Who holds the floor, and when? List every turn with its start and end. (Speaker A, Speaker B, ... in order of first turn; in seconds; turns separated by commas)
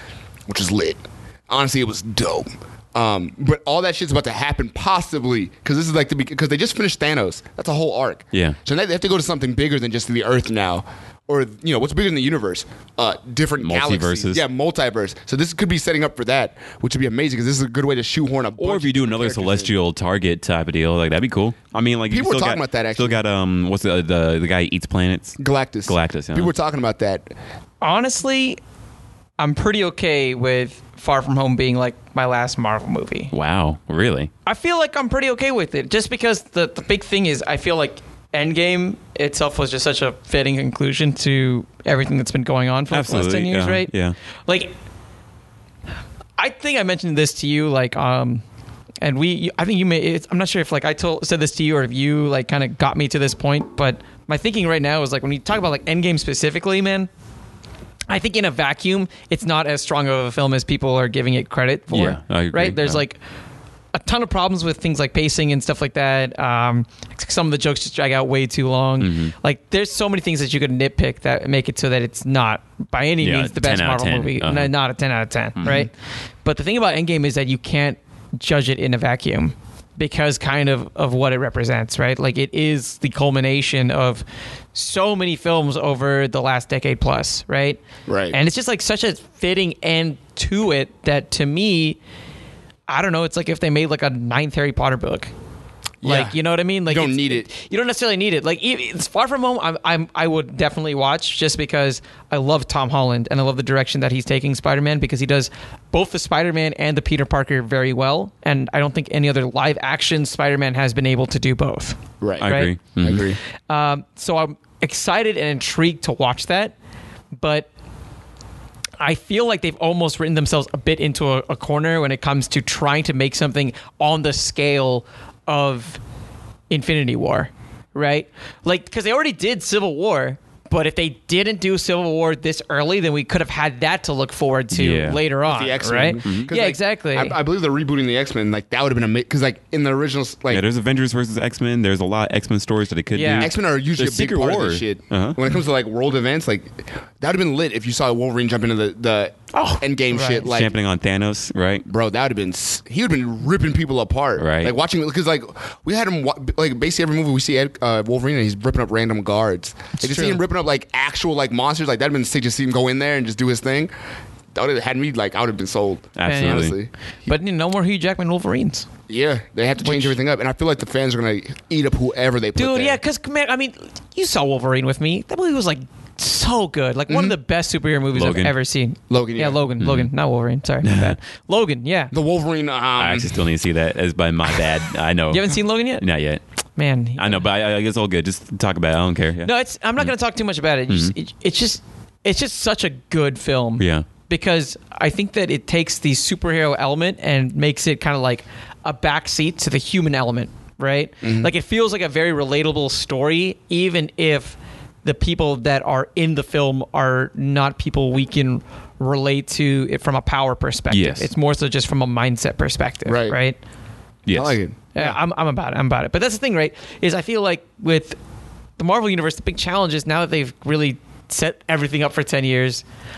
Speaker A: 0.5-19.7, Speaker B: 13.6-14.4, Speaker B: 18.6-26.5, Speaker A: 22.1-23.2, Speaker A: 25.4-27.3, Speaker C: 27.8-28.6, Speaker C: 29.4-33.3, Speaker B: 33.3-34.3, Speaker C: 34.4-43.9, Speaker B: 42.9-44.1, Speaker C: 44.5-44.7, Speaker C: 46.4-48.4, Speaker C: 49.0-57.1, Speaker C: 58.1-63.2, Speaker B: 61.9-63.0, Speaker C: 63.9-75.9, Speaker B: 69.0-69.3, Speaker B: 73.2-74.7, Speaker C: 76.4-84.2, Speaker C: 84.7-87.8, Speaker A: 88.1-88.4, Speaker C: 88.3-92.0, Speaker C: 92.9-95.3, Speaker A: 96.0-97.5, Speaker C: 96.0-112.7, Speaker A: 112.2-112.5, Speaker B: 112.4-113.3, Speaker A: 113.0-113.4, Speaker C: 113.7-116.7, Speaker C: 117.3-117.7, Speaker C: 119.0-126.0, Speaker C: 126.7-137.3, Speaker B: 134.7-135.2, Speaker A: 135.4-140.6, Speaker B: 140.5-145.4, Speaker C: 143.1-143.5, Speaker A: 143.4-150.7, Speaker C: 149.5-150.5, Speaker B: 150.4-151.8, Speaker A: 151.9-163.9, Speaker B: 154.4-154.7, Speaker C: 160.0-160.4, Speaker A: 164.5-166.9, Speaker B: 166.2-166.8, Speaker C: 166.2-166.7, Speaker C: 167.2-168.8, Speaker A: 169.1-173.0, Speaker C: 169.8-170.2, Speaker C: 172.6-182.1, Speaker A: 177.1-177.4, Speaker B: 178.1-178.5, Speaker A: 179.1-179.6, Speaker B: 179.8-180.1, Speaker B: 180.8-181.2, Speaker A: 182.1-183.4, Speaker B: 183.0-186.4, Speaker C: 185.3-186.0, Speaker C: 186.8-187.4, Speaker B: 187.2-190.1, Speaker C: 189.4-213.6, Speaker B: 190.9-191.1, Speaker B: 193.8-194.0, Speaker A: 201.2-201.5, Speaker B: 210.9-211.3, Speaker A: 213.1-213.4, Speaker B: 214.2-214.6, Speaker A: 214.3-215.2, Speaker C: 214.9-218.2, Speaker C: 218.8-222.8